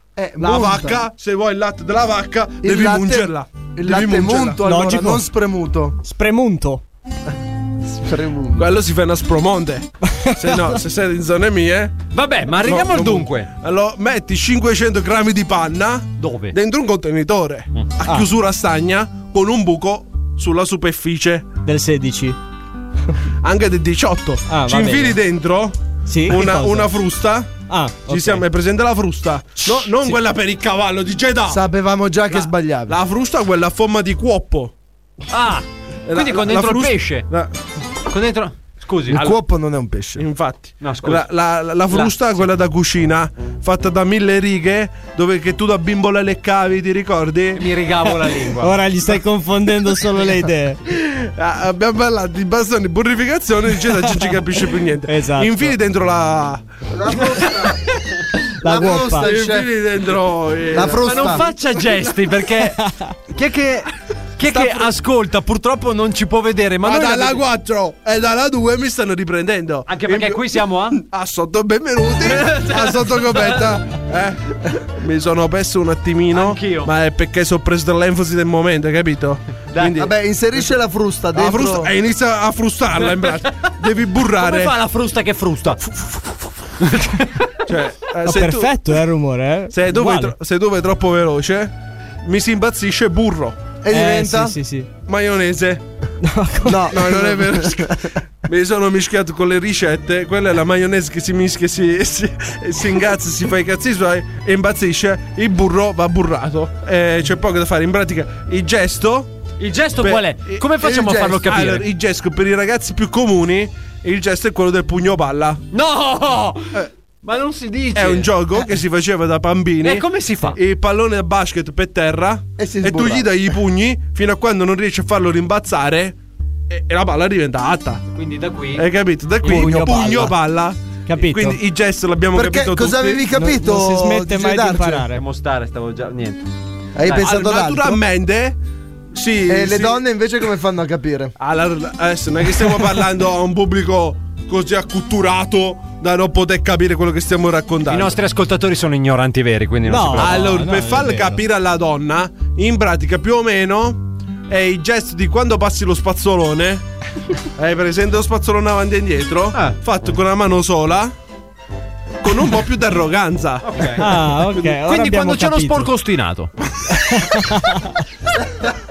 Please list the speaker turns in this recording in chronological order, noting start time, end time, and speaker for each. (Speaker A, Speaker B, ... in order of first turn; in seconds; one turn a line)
Speaker A: 0.1-1.0
Speaker B: 0.4-4.8
Speaker A: 2.6-6.0
Speaker C: 4.6-5.2
Speaker C: 6.0-6.8
Speaker A: 7.9-8.7
Speaker B: 8.6-11.9
Speaker C: 10.2-10.8
Speaker D: 12.1-13.5
Speaker B: 12.5-21.4
Speaker D: 16.2-16.6
Speaker C: 21.6-22.4
Speaker B: 23.4-31.6
Speaker C: 24.5-25.2
Speaker C: 26.1-26.9
Speaker C: 27.7-28.4
Speaker A: 31.5-33.0
Speaker B: 32.3-34.7
Speaker D: 35.3-37.3
Speaker B: 36.1-37.5
Speaker D: 38.1-39.2
Speaker B: 39.1-39.4
Speaker A: 39.1-40.2
Speaker B: 40.2-47.6
Speaker D: 40.8-41.2
Speaker D: 47.5-48.7
Speaker C: 48.6-50.8
Speaker B: 50.9-57.5
Speaker C: 55.1-55.7
Speaker A: 56.9-57.8
Speaker C: 58.6-59.3
Speaker A: 58.6-59.7
Speaker B: 59.0-61.5
Speaker A: 60.7-61.4
Speaker D: 60.9-62.8
Speaker C: 62.8-63.1
Speaker D: 63.3-67.4
Speaker B: 66.8-80.1
Speaker D: 69.9-71.0
Speaker D: 72.2-73.6
Speaker D: 76.3-76.9
Speaker D: 79.7-80.0
Speaker A: 80.0-81.9
Speaker B: 81.3-84.7
Speaker D: 83.0-83.4
Speaker D: 84.3-87.5
Speaker B: 87.7-88.8
Speaker C: 88.2-90.3
Speaker B: 89.7-93.6
Speaker A: 93.8-94.5
Speaker C: 93.9-94.9
Speaker B: 95.1-95.8
Speaker C: 96.2-96.9
Speaker A: 96.7-98.0
Speaker B: 96.9-109.3
Speaker D: 109.6-111.8
Speaker B: 110.0-110.6
Speaker A: 110.8-111.5
Speaker B: 111.4-115.6
Speaker D: 115.7-118.3
Speaker B: 117.9-126.1
Speaker D: 119.8-120.6
Speaker A: 122.6-123.3
Speaker B: 126.7-128.0
Speaker D: 128.1-128.8
Speaker B: 128.7-133.3
Speaker D: 129.4-130.3
Speaker C: 129.4-130.3
Speaker C: 131.1-131.6
Speaker A: 132.3-135.1
Speaker C: 133.3-135.2
Speaker D: 135.1-136.4
Speaker A: 136.9-138.0
Speaker B: 137.1-138.6
Speaker B: 139.1-140.0
Speaker A: 139.5-141.3
Speaker B: 141.4-148.1
Speaker D: 147.9-150.6
Speaker C: 149.9-151.4
Speaker B: 150.2-156.8
Speaker B: 157.6-161.1
Speaker B: 162.2-164.8
Speaker D: 163.6-164.1
Speaker C: 164.0-165.9
Speaker D: 164.7-166.5
Speaker C: 167.1-167.8